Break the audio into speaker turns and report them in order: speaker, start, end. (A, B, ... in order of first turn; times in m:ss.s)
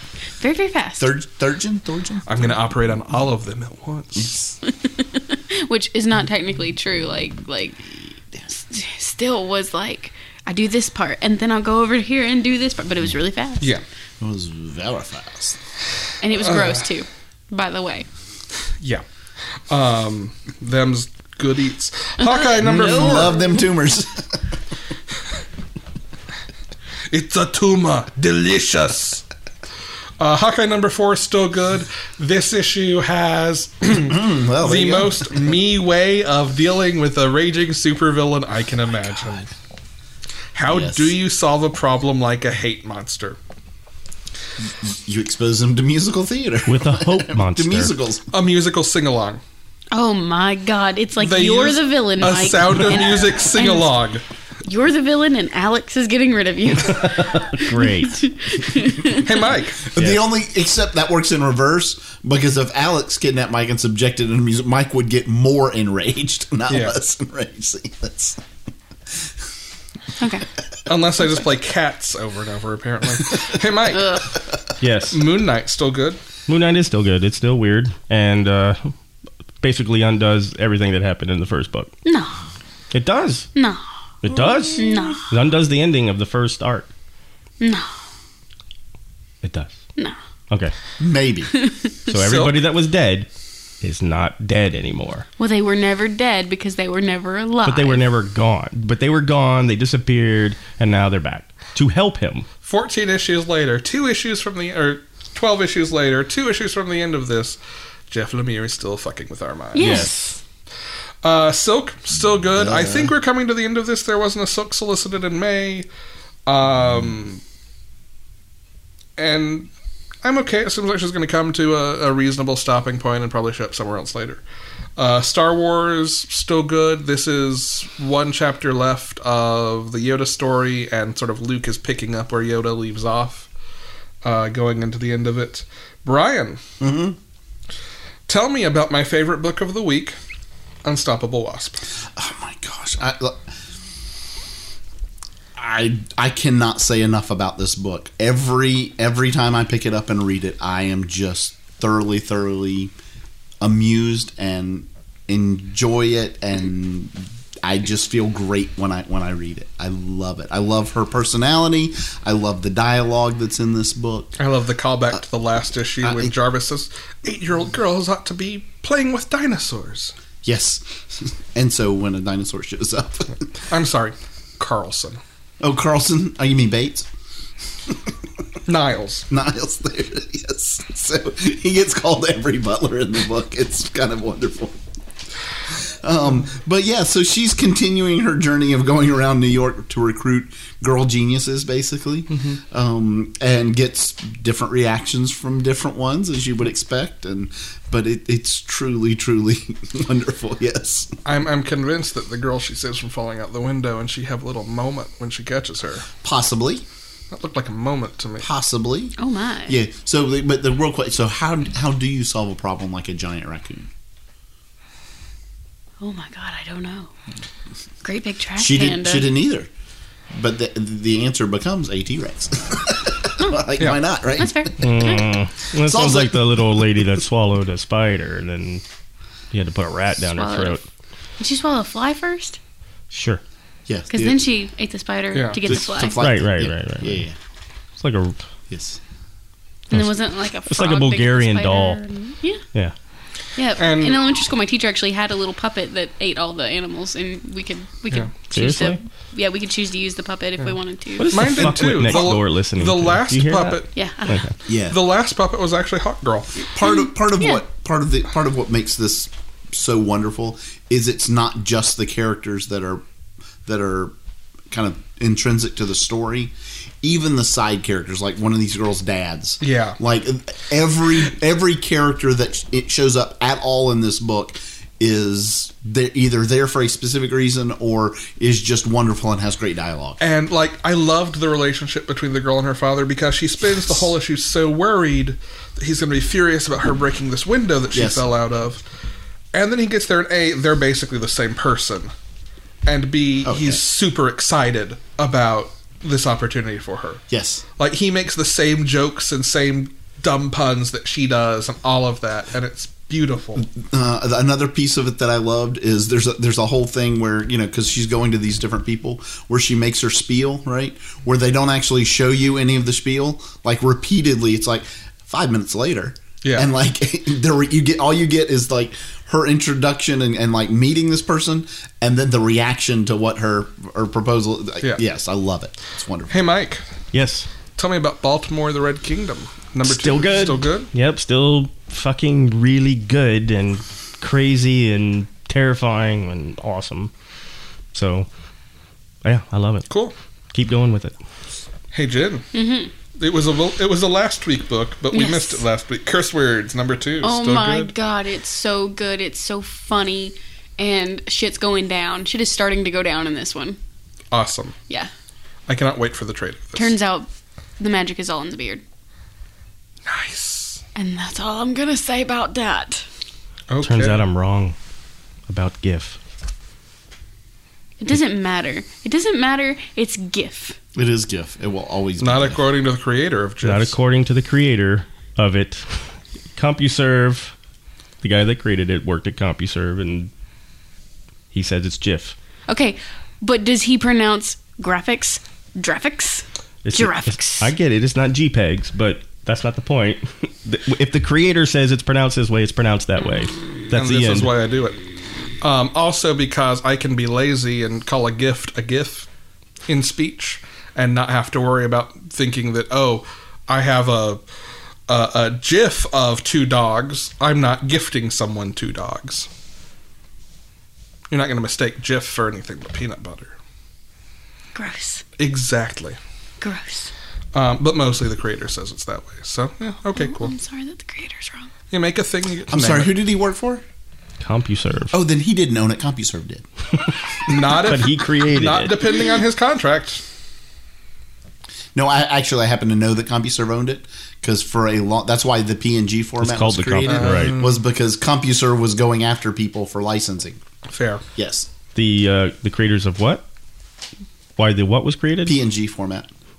0:00.4-0:01.1 A
0:01.0-0:02.6 B
0:02.3-0:04.5 C
0:04.7-0:13.7 A
0:14.2-0:15.6 B
0:16.2-0:18.1 A
0:16.4-0:16.8 C
0:19.7-0:23.4 C
0:22.2-0:23.5 A
0:22.6-0:24.4 B
0:27.1-0:29.2 C
0:30.2-0:39.5 C
0:33.9-0:35.3 B
0:40.6-0:43.4 C
0:40.7-0:41.2 B
0:44.6-0:48.3 B
0:46.7-0:47.9 D
0:48.3-0:49.4 C
0:49.9-0:54.0 A
0:51.2-0:54.2 C
0:54.6-0:59.3 A
0:56.9-0:58.3 D
0:59.1-1:00.2 C
0:59.9-1:08.4 B
1:06.7-1:07.0 C
1:10.2-1:10.4 A
1:10.9-1:14.2 C
1:13.9-1:14.4 A
1:14.8-1:15.2 D
1:15.1-1:16.2 C
1:16.5-1:18.9 D
1:19.6-1:21.9 D
1:22.0-1:22.4 A
1:22.9-1:23.5 D
1:23.6-1:23.8 A
1:24.2-1:26.9 D
1:24.8-1:25.2 A
1:27.6-1:27.9 A
1:29.4-1:29.8 D
1:30.5-1:30.8 D
1:31.0-1:31.5 B
1:31.5-1:31.9 A
1:32.1-1:32.6 C
1:32.1-1:33.3 D
1:33.8-1:35.3 D
1:35.4-1:38.0 A
1:37.6-1:42.5 D
1:42.6-1:47.6 C
1:48.1-1:50.1 C
1:49.8-1:50.4 A
1:49.8-1:50.2 D
1:51.2-1:55.9 C
1:52.6-1:53.1 B
1:56.5-1:57.4 C
1:59.2-1:59.7 C
2:00.2-2:04.4 C
2:05.0-2:13.5 C
2:14.2-2:16.6 C
2:16.8-2:17.2 B
2:18.3-2:20.2 C
2:20.8-2:21.8 C
2:22.1-2:23.5 B
2:25.6-2:32.9 B
2:33.6-2:44.4 B
2:44.4-2:50.2 C
2:46.0-2:46.3 B
2:50.4-2:53.5 B
2:53.7-2:55.2 C
2:55.6-2:57.1 B
2:58.7-2:59.2 C
2:59.3-3:04.8 B
3:05.6-3:21.1 B
3:12.3-3:12.6 C
3:21.2-3:26.1 C
3:26.2-3:26.8 B
3:27.3-3:28.5 C
3:28.4-3:29.1 B
3:29.2-3:29.8 A
3:29.7-3:33.9 B
3:36.0-3:37.1 A
3:38.0-3:39.3 A
3:38.6-3:39.7 B
3:40.3-3:47.1 B
3:44.4-3:45.2 A
3:44.8-3:48.8 D
3:49.5-3:50.8 D
3:50.4-3:50.8 A
3:51.4-3:52.6 A
3:53.1-3:53.4 D
3:53.9-3:54.4 B
3:54.1-3:56.2 A
3:55.3-3:55.6 C
3:55.6-3:57.4 B
3:56.1-3:57.2 D
3:58.0-3:58.4 D
3:58.7-3:59.0 B
3:59.9-4:02.6 A
4:00.7-4:02.0 D
4:03.6-4:11.5 A
4:03.8-4:04.2 C
4:08.5-4:09.0 D
4:11.2-4:14.5 D
4:11.3-4:13.9 C
4:14.0-4:14.5 A
4:14.7-4:15.0 B
4:14.7-4:16.5 C
4:16.6-4:23.0 B
4:23.6-4:24.1 B
4:24.7-4:40.2 B
4:29.6-4:30.0 C
4:40.2-4:48.8 C
4:47.9-4:48.3 B
4:49.5-4:52.1 C
4:52.9-4:57.2 C
4:53.4-4:53.8 B
4:57.3-4:57.6 B
4:57.8-5:03.6 C
5:03.6-5:26.3 B
5:16.4-5:16.7 C
5:26.3-5:26.8 C
5:27.1-5:27.5 D
5:27.8-5:30.9 C
5:29.8-5:37.1 D
5:37.9-5:38.3 D
5:39.2-5:39.9 D
5:39.9-5:40.1 C
5:40.5-5:41.2 D
5:41.9-5:42.5 C
5:42.5-5:42.9 A
5:43.2-5:47.9 C
5:45.1-5:45.6 A
5:47.2-5:53.8 A
5:54.3-5:54.8 C
5:55.7-5:57.0 C
5:56.8-5:58.8 A
6:00.1-6:00.8 C
6:01.0-6:03.1 A
6:03.7-6:04.2 C
6:03.8-6:04.8 D
6:05.5-6:06.2 D
6:08.0-6:10.8 A
6:11.0-6:12.6 B
6:12.2-6:14.0 C
6:13.6-6:17.5 D
6:18.2-6:20.3 D
6:21.5-6:22.4 D
6:22.7-6:27.7 A
6:26.8-6:34.5 D
6:33.9-6:35.0 C
6:35.6-6:39.3 C
6:39.9-6:44.4 C
6:45.1-6:49.5 C
6:51.3-6:53.6 C
6:54.8-6:55.2 A
6:55.4-6:56.2 C
6:56.6-6:57.1 A
6:57.5-7:00.5 C
7:00.2-7:01.7 A
7:01.9-7:03.1 C
7:02.7-7:03.8 B
7:04.4-7:05.2 D
7:05.1-7:06.6 B
7:07.5-7:09.1 D
7:07.5-7:10.2 C
7:12.0-7:20.6 B
7:16.4-7:17.6 D
7:17.0-7:17.8 C
7:20.9-7:21.2 C
7:21.4-7:21.7 B
7:22.0-7:23.4 D
7:24.6-7:25.6 D
7:25.4-7:26.3 B